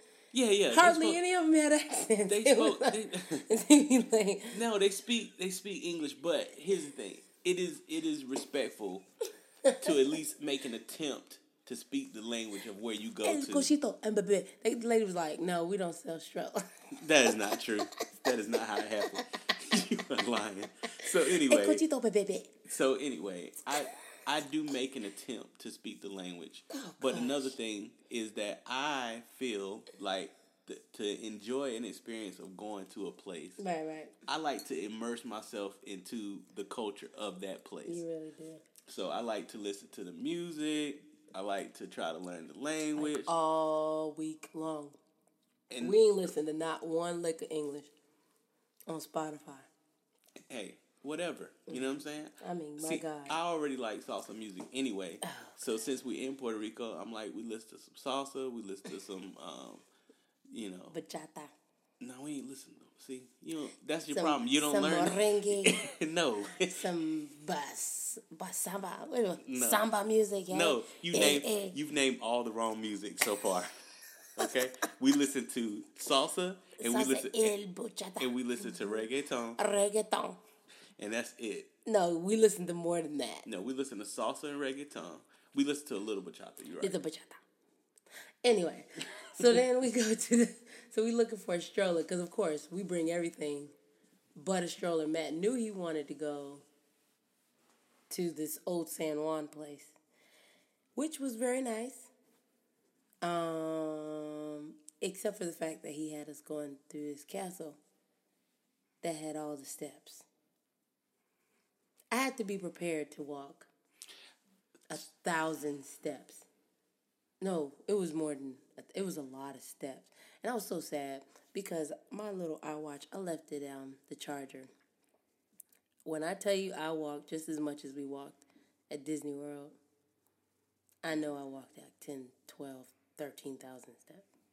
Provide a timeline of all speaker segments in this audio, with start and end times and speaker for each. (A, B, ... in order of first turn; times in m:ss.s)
0:00.3-0:01.2 A
0:00.7-0:04.6 B
0:02.3-0:03.5 A
0:04.5-0:09.0 A
0:09.8-0:13.7 A
0:13.2-0:16.6 B
0:16.9-0:21.8 A
0:19.0-0:19.3 B
0:21.0-0:22.6 B
0:22.6-0:33.6 A
0:26.7-0:27.5 B
0:33.6-0:34.1 B
0:34.3-0:38.0 A
0:37.8-0:38.6 B
0:38.8-0:43.3 A
0:43.0-0:45.0 B
0:45.7-0:46.0 A
0:45.8-0:47.9 B
0:48.9-0:49.7 B
0:50.4-0:59.8 A
0:51.7-0:53.4 B
0:55.2-0:55.6 B
1:00.5-1:01.0 A
1:00.9-1:01.5 B
1:02.0-1:06.8 A
1:04.1-1:05.9 B
1:06.6-1:11.8 B
1:09.4-1:09.8 A
1:10.5-1:13.7 A
1:14.4-1:17.5 A
1:16.8-1:19.0 B
1:18.2-1:19.6 A
1:19.6-1:20.4 B
1:21.0-1:21.7 A
1:21.8-1:23.5 B
1:23.4-1:26.9 A
1:26.8-1:27.4 B
1:28.4-1:33.7 B
1:34.4-1:36.6 B
1:38.1-1:40.0 B
1:41.0-1:42.1 B
1:43.2-1:47.8 B
1:49.0-1:50.2 B
1:52.1-1:53.7 B
1:54.9-1:56.5 B
1:57.4-2:04.7 B
2:06.0-2:09.8 B
2:11.0-2:14.2 B